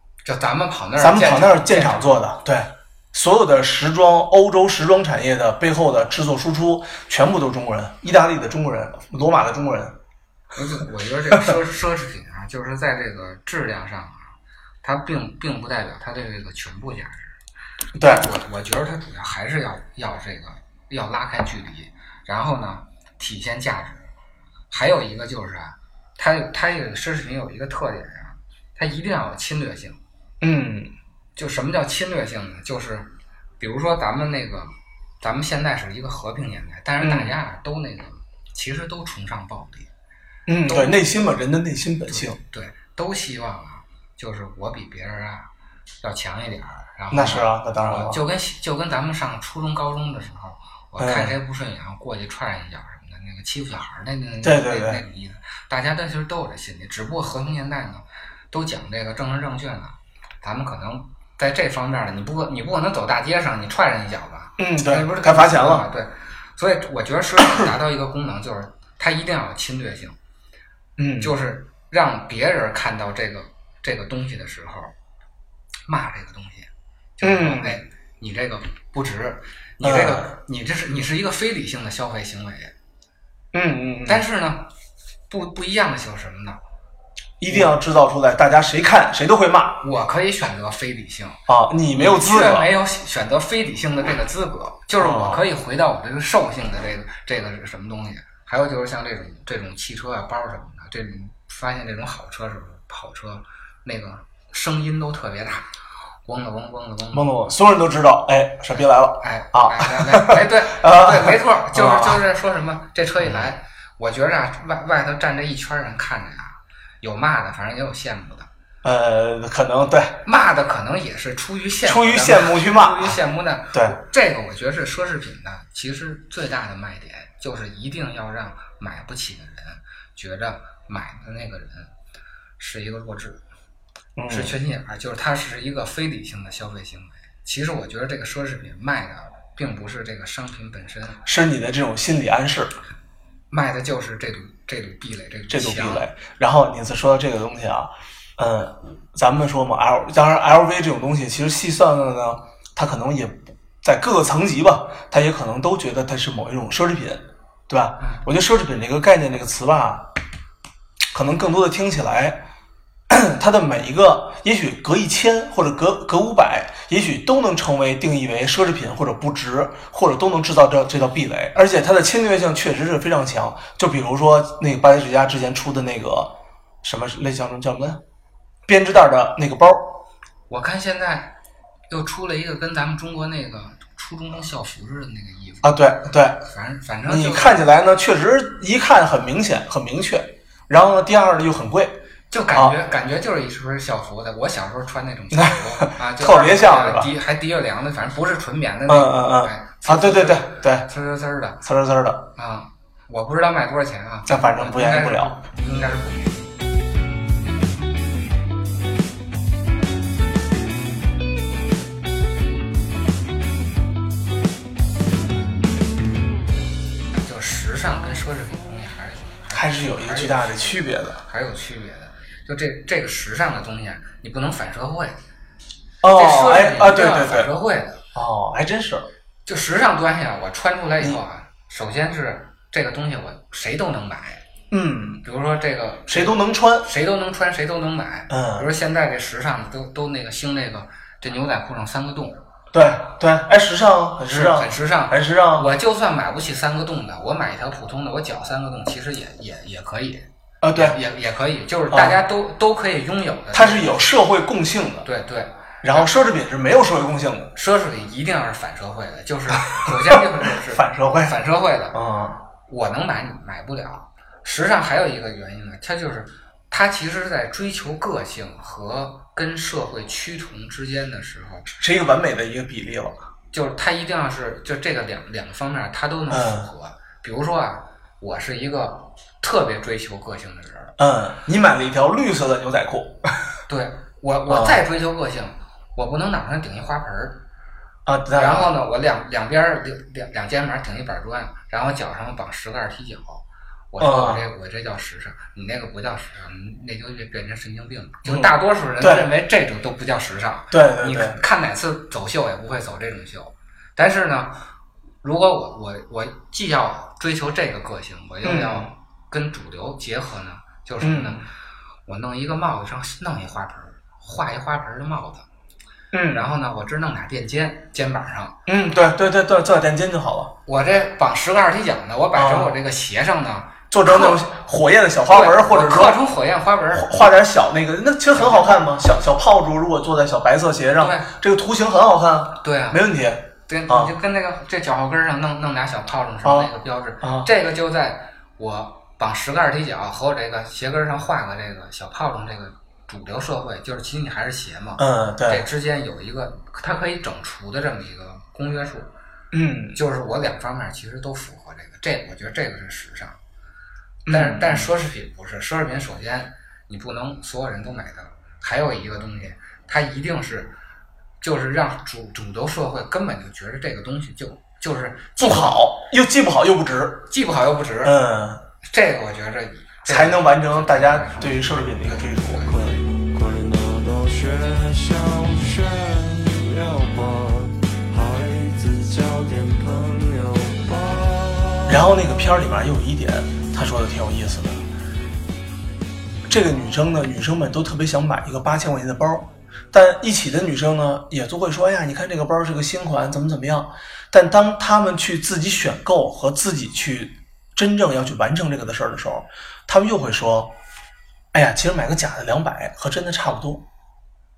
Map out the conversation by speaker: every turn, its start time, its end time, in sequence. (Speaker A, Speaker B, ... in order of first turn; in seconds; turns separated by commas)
Speaker A: 0.2-2.2, Speaker B: 1.0-10.0, Speaker A: 10.5-14.3, Speaker A: 14.8-17.4, Speaker B: 17.9-18.3, Speaker A: 18.0-24.1, Speaker A: 24.7-30.0, Speaker B: 30.4-30.9, Speaker A: 31.4-39.9, Speaker B: 37.0-37.3, Speaker B: 40.5-42.4, Speaker A: 40.7-41.0, Speaker A: 42.1-45.5, Speaker A: 46.0-70.2, Speaker B: 47.1-48.2, Speaker B: 51.0-51.3, Speaker B: 54.4-55.0, Speaker B: 64.6-65.8, Speaker B: 71.0-71.3, Speaker A: 71.2-74.9, Speaker A: 75.9-82.7, Speaker B: 77.2-77.8, Speaker B: 79.8-80.3, Speaker B: 83.5-84.2, Speaker A: 84.0-84.7, Speaker A: 85.3-86.6, Speaker B: 87.4-89.8, Speaker A: 89.8-91.4, Speaker B: 91.5-92.7, Speaker A: 91.9-105.7, Speaker B: 95.0-95.4, Speaker A: 106.2-107.3, Speaker B: 107.1-112.2, Speaker A: 109.2-118.5, Speaker B: 113.2-113.5, Speaker B: 118.8-120.2, Speaker A: 120.2-131.9, Speaker B: 121.8-123.2, Speaker A: 132.6-133.4, Speaker B: 134.2-134.6, Speaker A: 134.3-141.2, Speaker B: 141.2-142.7, Speaker A: 143.5-146.1, Speaker B: 145.5-160.1, Speaker B: 161.1-162.4, Speaker B: 163.1-178.0, Speaker B: 178.7-180.0, Speaker A: 180.5-181.4, Speaker A: 181.9-185.8, Speaker B: 185.6-186.4, Speaker A: 186.4-187.7, Speaker B: 187.0-192.0, Speaker A: 192.3-201.6, Speaker B: 195.3-197.1, Speaker B: 198.9-200.9, Speaker B: 201.6-202.3, Speaker A: 202.3-206.5, Speaker B: 204.3-205.3, Speaker A: 217.1-225.2, Speaker B: 219.5-221.2, Speaker B: 226.0-227.5, Speaker A: 226.1-228.0, Speaker B: 228.1-229.1, Speaker A: 229.4-234.4, Speaker B: 234.7-235.2, Speaker A: 235.2-242.4, Speaker B: 236.1-236.9, Speaker B: 238.3-238.7, Speaker B: 242.7-245.7, Speaker A: 244.2-254.1, Speaker B: 250.6-251.0, Speaker B: 251.9-252.2, Speaker B: 253.5-255.1, Speaker A: 255.0-256.1, Speaker B: 255.8-257.5, Speaker A: 257.5-262.0, Speaker B: 259.7-261.4, Speaker B: 261.9-262.4, Speaker A: 262.7-271.7, Speaker B: 271.8-273.2, Speaker A: 273.5-280.9, Speaker B: 276.3-276.7, Speaker B: 281.0-283.5, Speaker A: 283.7-287.4, Speaker B: 284.5-284.8, Speaker B: 288.1-288.7, Speaker A: 288.3-304.7, Speaker B: 294.0-294.4, Speaker B: 298.2-299.3, Speaker B: 300.7-301.4, Speaker A: 305.2-311.4, Speaker B: 308.4-308.9, Speaker B: 311.0-311.4, Speaker A: 312.1-315.4, Speaker B: 316.1-316.5, Speaker A: 316.3-318.6, Speaker B: 318.7-320.6, Speaker A: 320.7-324.4, Speaker B: 322.3-322.8, Speaker B: 323.9-326.2, Speaker A: 325.3-327.2, Speaker B: 326.9-334.1, Speaker A: 328.3-328.8, Speaker A: 331.0-331.3, Speaker A: 332.6-333.0, Speaker A: 333.7-349.1, Speaker B: 336.4-337.5, Speaker B: 345.0-345.6, Speaker B: 349.5-350.0, Speaker A: 349.9-353.4, Speaker B: 354.2-354.9, Speaker A: 354.3-360.8, Speaker A: 361.4-365.8, Speaker B: 365.4-367.3, Speaker A: 367.3-368.1, Speaker B: 368.0-368.6, Speaker A: 368.8-372.8, Speaker B: 370.1-372.9, Speaker C: 372.6-382.0, Speaker B: 381.9-384.9, Speaker B: 386.5-400.8, Speaker B: 401.5-403.9